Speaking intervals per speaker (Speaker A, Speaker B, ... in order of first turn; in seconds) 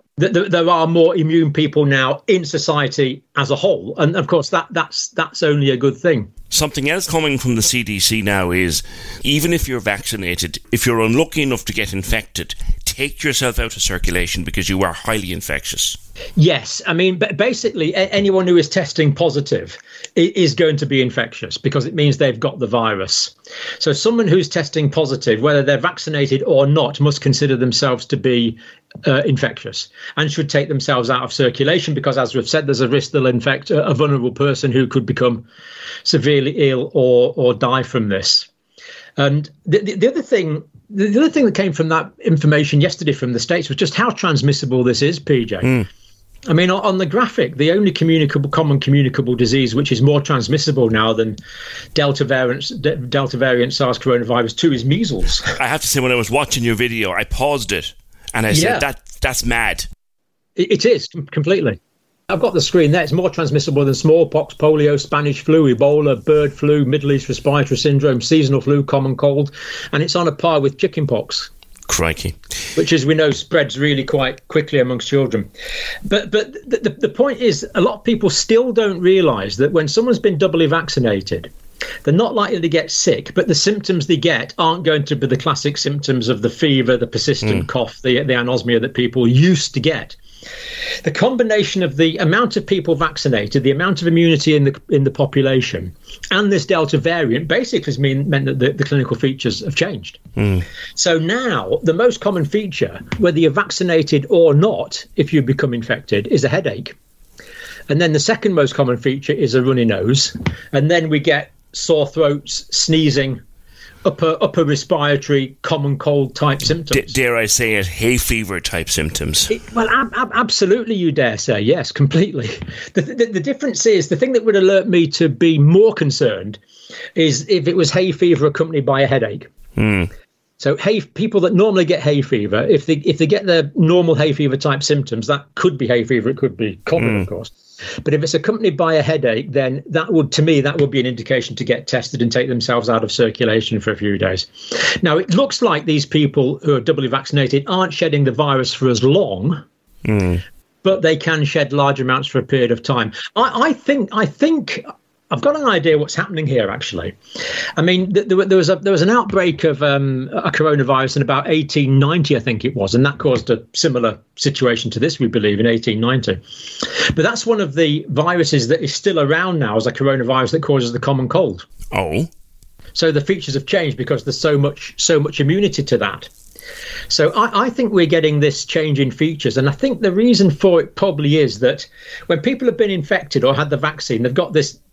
Speaker A: 0.2-6.3, 16.4-35.5, 36.0-38.5, 39.2-45.8, 46.5-51.4, 52.0-55.5, 58.5-58.9, 60.6-61.8, 62.3-71.5, 72.8-75.5, 76.1-81.5, 82.0-90.2, 91.0-100.2, 101.0-107.0, 107.9-113.4, 114.0-117.2, 119.5-126.6, 127.2-129.5, 130.6-149.6, 150.8-157.2, 157.8-171.7, 172.9-176.3, 177.1-184.8
Speaker B: 6.5-16.0, 55.6-59.9, 71.9-72.4, 100.4-100.7, 116.9-119.5, 129.8-130.1, 137.0-137.3, 150.1-150.4, 171.9-172.3